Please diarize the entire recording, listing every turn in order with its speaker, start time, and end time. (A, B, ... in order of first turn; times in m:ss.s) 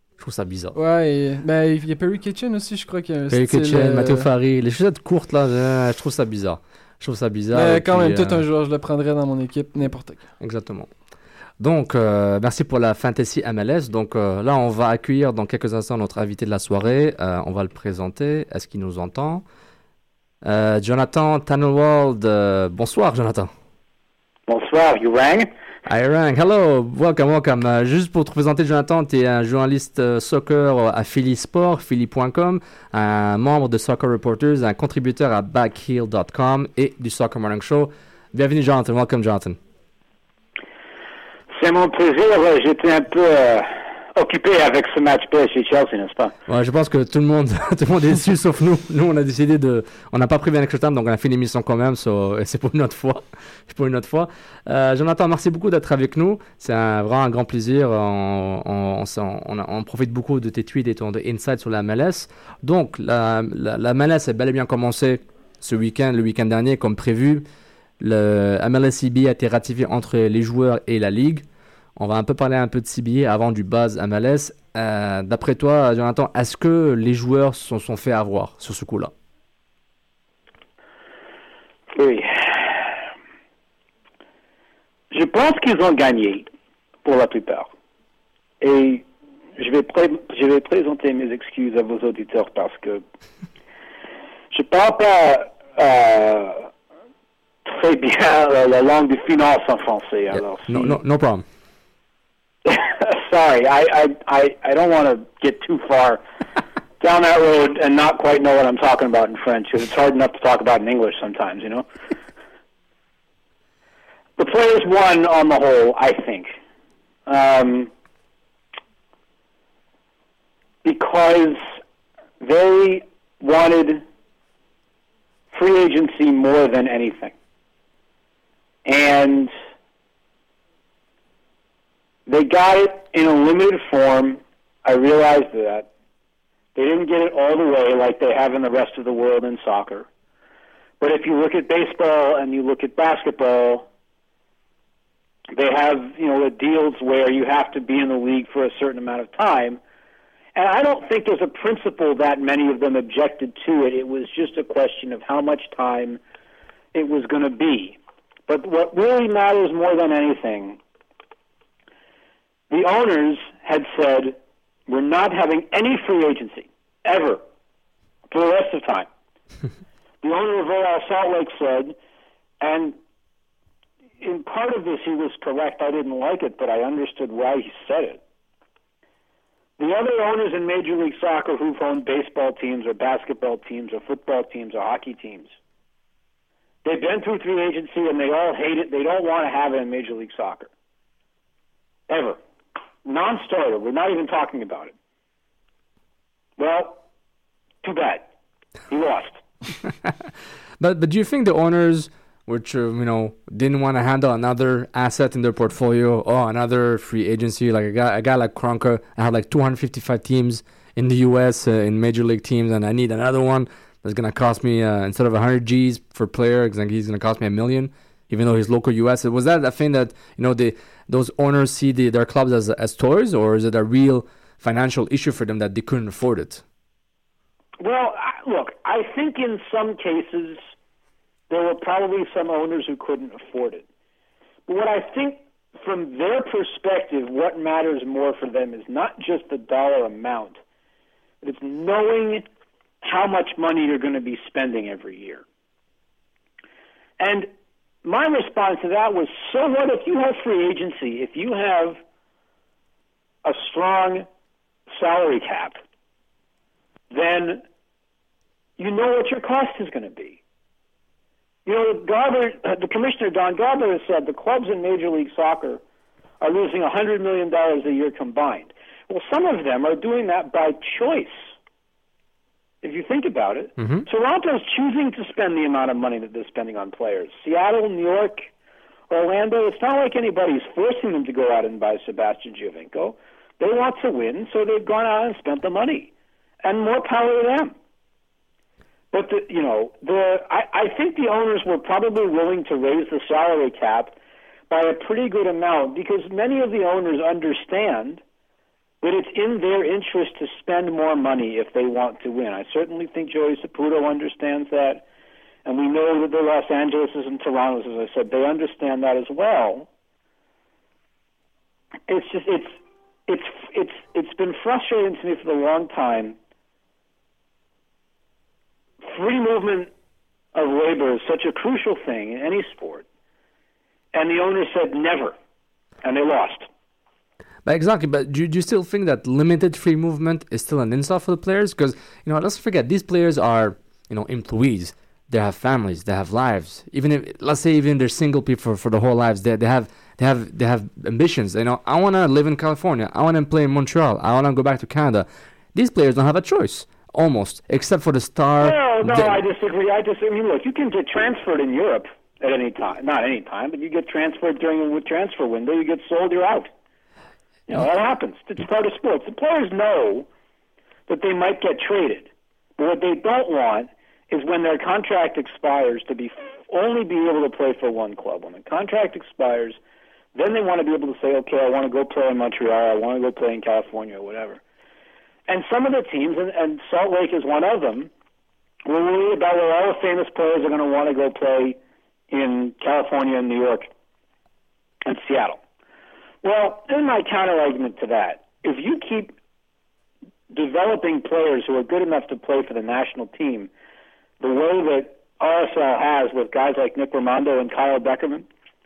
0:00.2-0:00.8 A
0:00.8-0:04.3 B
0:03.3-0:08.4 A
0:07.5-0:10.2 B
0:10.4-0:10.9 A
0:11.6-0:19.4 A
0:20.4-0:23.5 A
0:24.5-0:25.5 C
0:25.9-0:39.6 A
0:41.5-0:46.3 C
0:46.5-1:07.5 A
1:08.0-1:11.4 A
1:12.0-1:19.1 A
1:21.9-1:22.9 C
1:25.1-1:26.5 C
1:27.0-1:27.7 C
1:28.6-1:29.0 C
1:29.6-1:33.0 C
1:34.5-1:36.7 C
1:37.7-1:41.0 C
1:40.3-1:41.4 A
1:42.6-1:46.2 C
1:47.0-1:51.9 C
1:54.4-1:56.5 C
1:57.3-1:57.9 C
2:00.8-2:01.6 C
2:02.4-2:04.0 C
2:05.5-2:07.4 C
2:08.9-2:09.5 C
2:12.3-2:15.9 C
2:16.8-2:20.1 C
2:21.0-2:23.9 C
2:25.5-2:29.8 C
2:30.6-2:36.2 C
2:36.9-2:40.8 C
2:42.7-2:47.4 C
2:48.3-2:49.1 C
2:50.2-2:52.0 C
2:52.6-2:53.0 C
2:54.2-2:58.2 C
2:59.8-3:05.5 C
3:06.8-3:10.7 C
3:12.1-3:12.4 C
3:13.0-3:14.9 C
3:16.6-3:17.0 C
3:17.8-3:18.3 C
3:18.9-3:19.4 C
3:20.8-3:46.6 A
3:47.8-3:50.6 C
3:51.5-3:53.8 C
3:54.7-4:00.6 C
4:01.4-4:02.5 C
4:03.0-4:05.4 C
4:07.2-4:07.5 C
4:08.0-4:12.0 C
4:13.4-4:14.3 C
4:14.9-4:15.8 C
4:17.1-4:17.6 C
4:18.8-4:20.4 C
4:21.6-4:25.8 C
4:26.4-4:31.5 C
4:32.8-4:38.5 C
4:33.8-4:34.0 A
4:39.1-4:46.1 C
4:46.6-4:47.8 C
4:49.1-4:54.2 C
4:54.7-4:58.2 C
4:59.0-5:05.0 C
5:05.6-5:09.9 C
5:12.1-5:16.4 C
5:19.0-5:19.9 C
5:20.5-5:23.1 C
5:24.1-5:25.4 C
5:26.0-5:26.7 C
5:27.7-5:49.4 A
5:48.6-5:56.7 C
5:57.7-6:00.3 C
6:01.1-6:09.8 C
6:10.4-6:14.6 C
6:15.5-6:18.1 C
6:18.9-6:21.8 C
6:22.3-6:23.9 C
6:25.0-6:25.6 C
6:26.4-6:29.4 C
6:30.5-6:33.7 C
6:34.4-6:38.5 C